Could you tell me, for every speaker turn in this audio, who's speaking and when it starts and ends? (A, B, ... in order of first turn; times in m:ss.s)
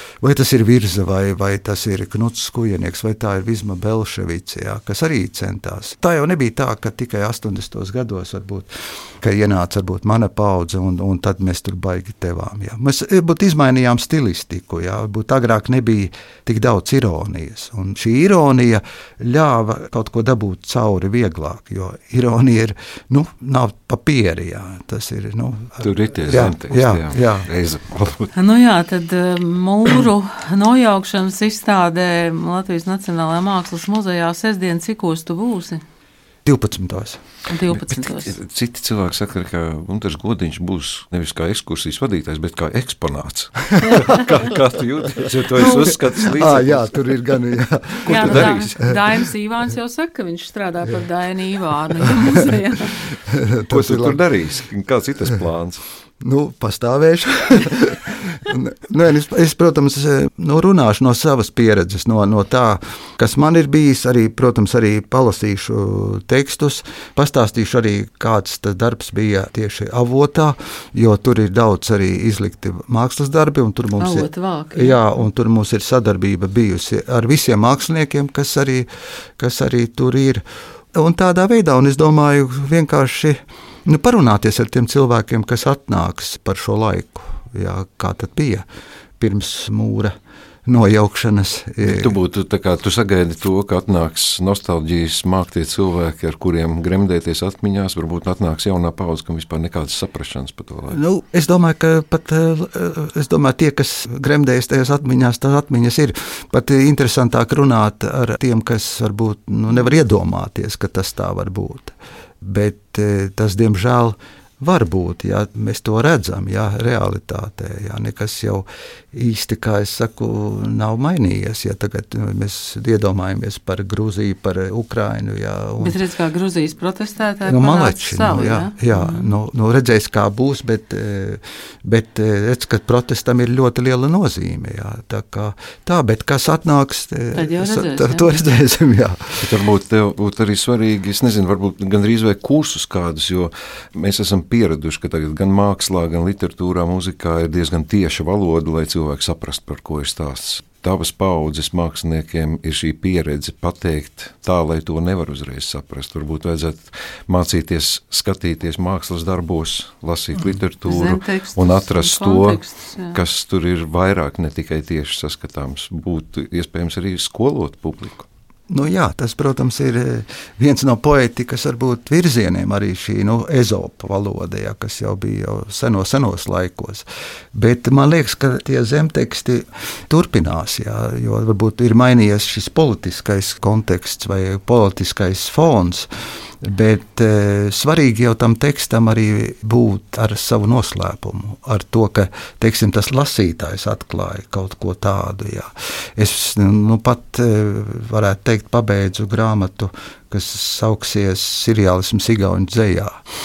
0:00.2-0:08.7 A
0:09.2-0:27.5 A
0:25.8-0:28.3 B
0:28.3-0:35.8 C
0:36.4-0:37.2 A
0:37.5-0:38.4 C
0:37.8-0:47.2 B
0:43.7-0:44.2 A
0:45.6-0:45.9 C
0:45.6-0:48.8 A
0:48.0-0:48.9 B
0:48.1-0:53.0 C
0:53.3-0:54.2 A
0:53.7-0:55.8 B
0:56.2-1:20.4 A
1:14.0-1:15.0 C
1:20.9-1:28.6 A
1:29.2-1:30.1 A
1:30.6-1:32.1 A
1:31.8-1:41.0 B
1:40.9-2:06.0 A
2:05.8-2:09.3 C
2:07.4-2:19.5 A
2:17.3-2:18.3 C
2:19.4-2:48.2 B
2:40.8-2:43.2 C
2:48.7-3:06.1 A
3:06.6-3:23.1 A